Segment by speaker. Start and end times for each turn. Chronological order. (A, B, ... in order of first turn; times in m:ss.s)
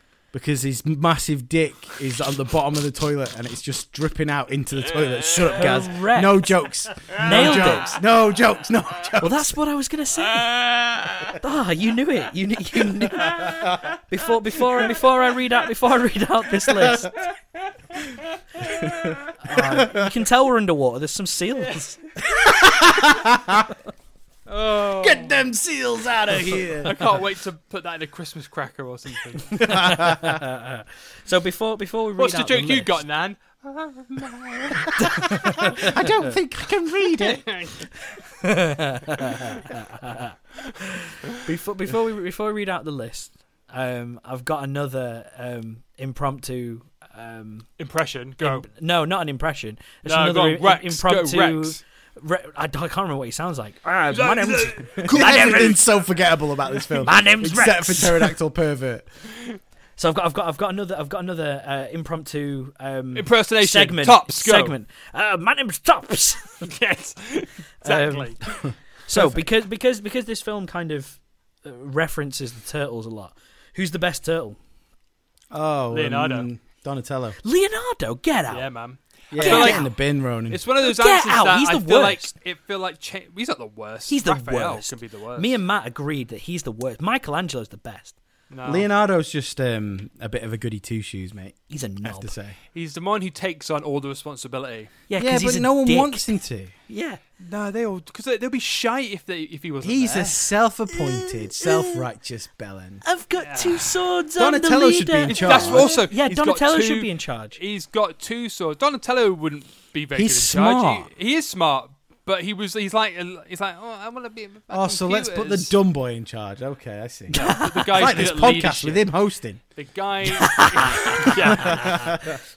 0:00.3-0:09.4 A
0:05.6-0:08.0 B
0:07.3-0:07.8 C
0:09.2-0:17.2 B
0:13.3-0:13.9 A
0:18.7-0:20.1 A
0:19.4-0:22.0 B
0:22.3-0:23.7 A
0:24.5-0:25.4 C
0:24.8-0:27.1 A
0:26.8-0:29.7 C
0:29.5-0:33.0 B
0:29.6-0:30.4 A
0:32.2-0:35.9 C
0:35.0-0:35.9 B
0:35.6-0:37.5 A
0:37.1-0:37.9 C
0:38.4-0:47.7 B
0:47.8-0:48.7 C
0:48.4-0:55.8 B
0:50.0-0:51.8 C
0:54.1-0:55.9 C
0:55.0-0:59.1 A
0:57.0-0:58.3 B
1:00.0-1:06.7 B
1:03.2-1:04.8 C
1:06.6-1:08.4 C
1:07.8-1:08.4 B
1:08.6-1:09.4 A
1:09.1-1:14.6 B
1:15.5-1:17.4 A
1:15.9-1:16.5 C
1:17.4-1:18.7 B
1:18.5-1:19.9 C
1:19.3-1:20.6 A
1:19.4-1:19.9 B
1:20.5-1:25.6 C
1:20.8-1:22.3 B
1:24.1-1:28.2 B
1:28.5-1:28.9 C
1:28.6-1:32.6 A
1:31.7-1:32.3 B
1:32.7-1:34.9 C
1:35.1-1:36.4 B
1:35.2-1:36.7 A
1:36.9-1:37.2 B
1:37.4-1:40.5 C
1:39.8-1:43.0 A
1:41.1-1:42.0 B
1:43.0-1:47.6 B
1:43.4-1:43.9 C
1:44.4-1:46.0 A
1:45.3-1:55.8 C
1:50.2-1:51.1 A
1:54.7-1:59.6 A
1:57.3-1:59.2 C
1:57.4-1:57.8 B
1:59.8-2:02.3 C
2:00.2-2:02.2 B
2:01.4-2:02.4 A